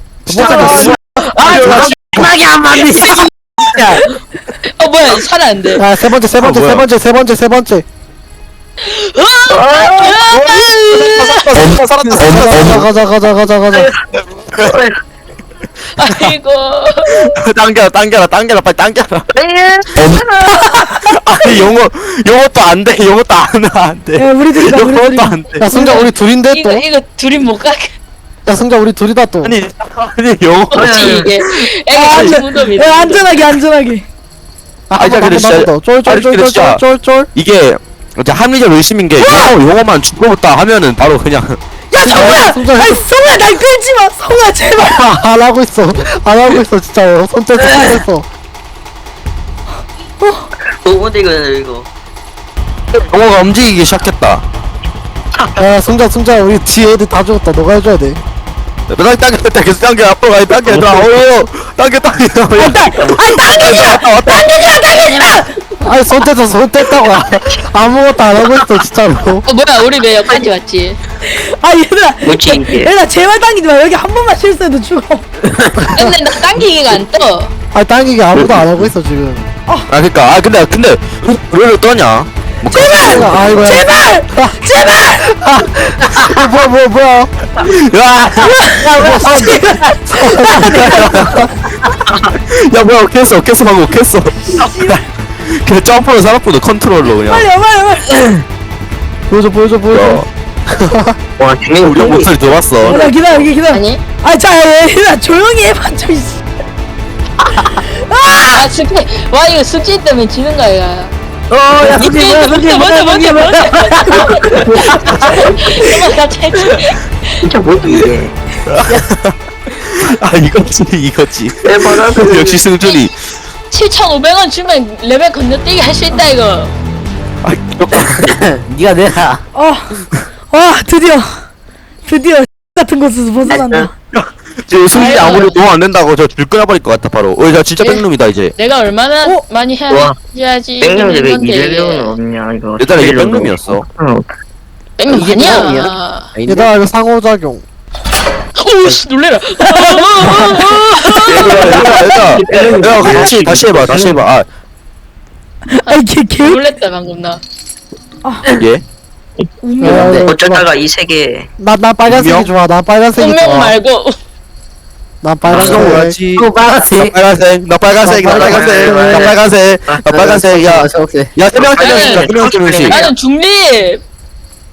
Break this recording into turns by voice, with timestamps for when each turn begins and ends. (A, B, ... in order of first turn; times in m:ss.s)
0:00.2-0:02.4 A
0:00.3-0:01.0 B
0:00.4-0:04.0 C
0:02.7-0:03.3 D
0:04.7-0:05.8 D
0:05.8-0:07.8 B
0:06.3-0:06.9 A
0:08.8-0:11.6 D
0:09.6-0:12.9 A
0:09.7-0:10.1 E
0:12.1-0:13.9 B
0:13.8-0:14.8 A
0:14.6-0:14.9 E
0:16.0-0:17.3 D
0:16.0-0:16.4 A
0:17.0-0:19.3 A
0:19.4-0:20.2 E
0:20.0-0:25.7 A
0:24.2-0:25.4 F
0:25.6-0:26.9 B
0:25.7-0:28.0 D
0:28.5-0:29.6 B
0:29.4-0:32.4 A
0:30.7-0:33.4 D
0:30.8-0:31.3 E
0:31.9-0:34.0 F
0:34.9-0:37.3 B
0:35.0-0:36.8 A
0:37.3-0:41.6 A
0:39.2-0:39.5 F
0:41.9-0:45.2 F
0:42.0-0:43.0 B
0:44.8-0:48.2 B
0:50.8-0:51.9 E
0:52.9-0:54.4 A
0:55.3-0:55.6 E
0:55.6-0:58.2 B
0:58.9-1:04.5 A
1:00.6-1:01.1 E
1:02.6-1:05.6 F
1:03.0-1:03.3 E
1:05.8-1:09.4 B
1:07.1-1:07.6 E
1:09.4-1:11.0 D
1:11.3-1:15.3 F
1:12.2-1:12.9 E
1:15.8-1:16.1 B
1:15.9-1:17.5 D
1:17.7-1:19.4 B
1:18.4-1:18.9 A
1:19.9-1:23.7 A
1:22.7-1:25.3 F
1:23.0-1:27.3 B
1:26.1-1:26.5 C
1:27.6-1:29.6 A
1:28.4-1:31.0 F
1:29.0-1:31.5 B
1:30.6-1:31.4 A
1:32.3-1:37.5 A
1:34.5-1:35.0 F
1:37.2-1:38.4 F
1:39.3-1:41.2 B
1:39.9-1:40.3 A
1:41.4-1:42.2 E
1:41.8-1:43.0 A
1:42.0-1:42.3 C
1:42.8-1:46.4 F
1:43.7-1:44.0 D
1:47.4-1:47.7 C
1:47.7-1:48.5 F
1:48.4-1:48.7 C
1:48.5-1:51.1 D
1:51.5-1:55.1 C
1:51.8-1:57.4 D
1:54.2-1:55.6 E
1:55.7-1:56.1 C
1:57.4-1:58.3 E
1:58.7-2:03.2 A
2:01.6-2:02.7 E
2:03.7-2:06.7 D
2:07.4-2:08.3 A
2:08.2-2:09.4 C
2:09.5-2:10.0 F
2:10.5-2:11.4 F
2:12.0-2:13.9 F
2:14.1-2:18.5 A
2:14.9-2:15.6 D
2:17.8-2:18.0 D
2:18.6-2:22.2 D
2:19.9-2:20.2 E
2:20.8-2:24.2 E
2:22.8-2:23.8 A
2:25.0-2:26.3 D
2:25.1-2:26.7 C
2:26.5-2:27.6 B
2:28.5-2:31.5 D
2:29.6-2:30.3 F
2:30.4-2:30.7 C
2:31.3-2:34.2 E
2:31.3-2:34.5 A
2:31.7-2:33.0 C
2:35.7-2:36.6 F
2:35.8-2:37.4 D
2:38.6-2:38.8 A
2:39.6-2:40.2 F
2:39.8-2:40.6 B
2:39.8-2:40.3 C
2:40.2-2:41.5 E
2:41.6-2:43.8 B
2:42.0-2:42.5 A
2:43.2-2:44.2 D
2:45.2-2:46.2 B
2:45.4-2:53.0 A
2:45.5-2:47.2 C
2:47.9-2:49.3 B
2:48.3-2:49.4 E
2:50.0-2:51.3 C
2:51.5-2:53.1 E
2:51.8-2:52.3 D
2:52.9-2:54.0 D